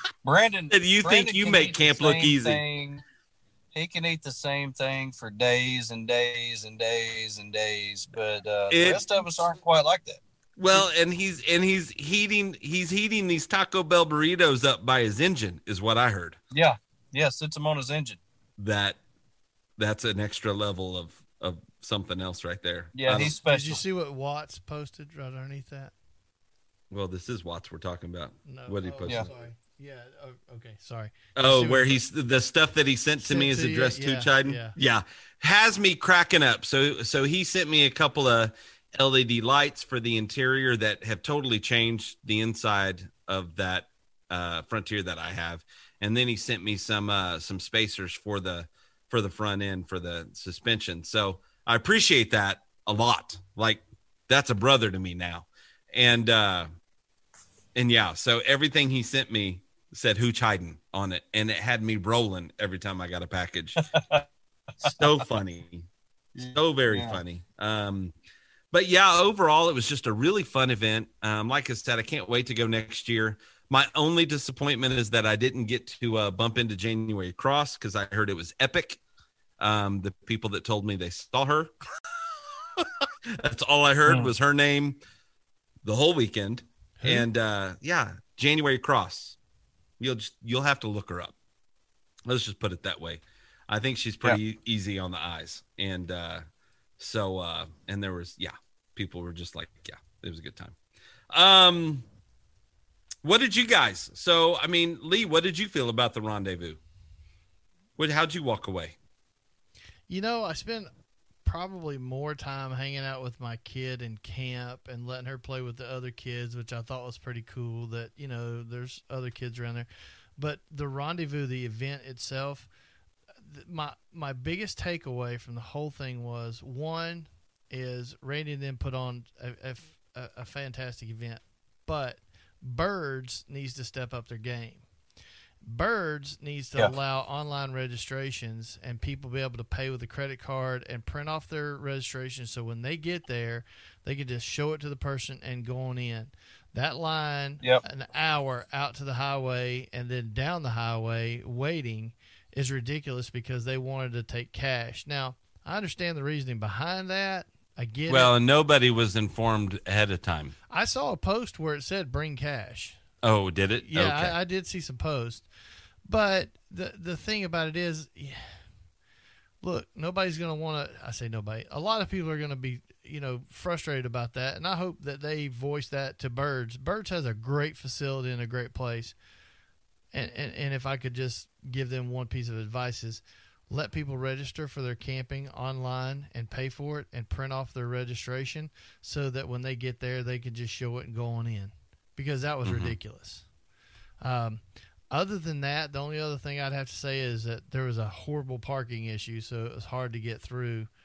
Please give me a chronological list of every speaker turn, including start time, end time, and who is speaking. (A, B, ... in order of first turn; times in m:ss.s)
0:00.2-0:03.0 A
0:00.7-0:02.6 B
0:03.7-0:10.2 A
0:08.7-0:09.0 B
0:10.6-0:16.4 B
0:16.5-0:18.2 A
0:18.6-0:19.0 B
0:19.8-0:23.3 B
0:22.9-0:23.8 A
0:23.1-0:25.9 C
0:26.9-0:29.3 B
0:28.4-0:31.9 C
0:31.4-0:56.7 B
0:33.2-0:34.8 C
0:57.7-1:03.8 B
1:03.9-1:04.2 A
1:04.8-1:08.1 B
1:06.4-1:07.2 A
1:08.7-1:19.0 B
1:19.6-1:21.7 B
1:22.8-1:25.0 B
1:24.0-1:24.3 A
1:25.8-1:29.4 B
1:27.0-1:27.3 C
1:30.0-1:31.3 B
1:32.3-1:36.4 B
1:37.0-1:40.7 B
1:41.3-1:42.0 B
1:43.2-1:46.8 B
1:48.0-1:49.0 B
1:50.1-1:50.9 C
1:51.4-2:02.7 C
2:03.4-2:14.8 C
2:15.6-2:38.3 C
2:38.1-2:40.5 B
2:40.7-2:43.0 C
2:43.2-2:44.3 B
2:43.8-2:45.5 C
2:46.0-2:48.6 C
2:49.6-2:59.2 C
3:00.1-3:13.5 C
3:12.6-3:13.0 B
3:14.2-3:20.9 C